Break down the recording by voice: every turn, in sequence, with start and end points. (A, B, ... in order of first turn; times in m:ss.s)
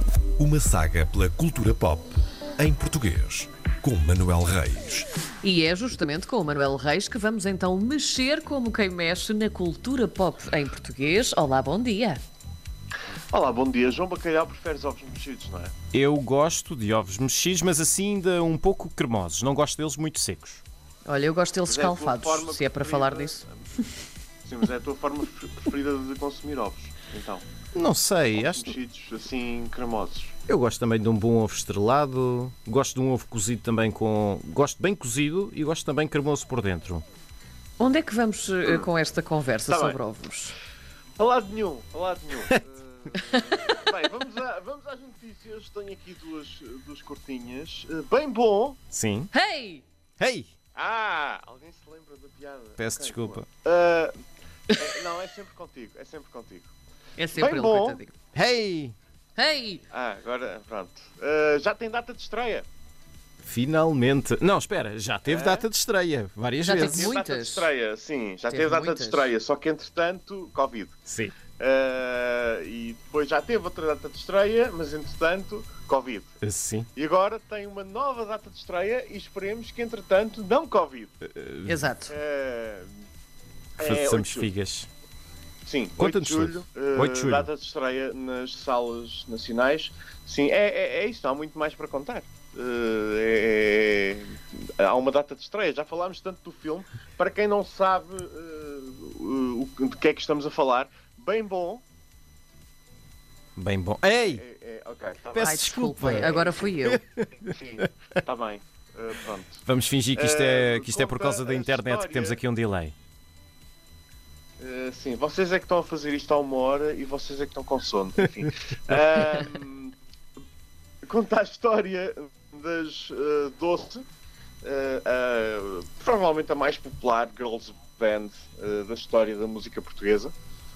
0:00.4-0:05.1 A
0:05.4-0:12.2 B
0:13.3-0:15.7 C
0:15.9-0:20.6 D
0:21.0-0:23.4 B
0:21.7-0:23.5 C
0:24.4-0:27.6 C
0:27.7-0:28.7 D
0:28.4-0:30.3 C
0:30.5-0:37.0 D
0:37.8-0:40.5 B
0:39.7-0:40.0 C
0:41.2-0:48.8 C
0:43.1-0:43.4 B
0:48.9-0:49.3 D
0:49.3-0:49.8 B
0:50.2-0:50.5 D
0:50.7-0:54.1 C
0:52.8-0:53.5 D
0:54.7-0:56.7 C
0:57.2-0:58.1 B
0:57.4-0:58.0 C
0:58.3-0:58.9 D
0:59.4-0:59.8 B
0:59.9-1:02.7 C
1:03.4-1:07.1 D
1:05.2-1:05.7 C
1:06.6-1:07.7 B
1:06.8-1:11.0 C
1:08.5-1:09.3 B
1:11.0-1:11.3 D
1:11.6-1:16.3 C
1:16.4-1:16.9 D
1:16.9-1:21.1 C
1:21.2-1:21.8 D
1:21.6-1:22.1 B
1:22.1-1:22.9 C
1:23.8-1:24.5 C
1:23.8-1:24.9 D
1:25.6-1:41.8 C
1:26.0-1:27.5 D
1:43.6-1:44.4 D
1:44.3-1:46.7 C
1:45.3-1:47.9 D
1:45.4-1:47.0 B
1:47.4-1:49.6 C
1:49.6-1:52.9 D
1:50.1-1:52.4 C
1:54.6-1:59.9 C
2:01.0-2:04.0 C
2:04.6-2:10.3 C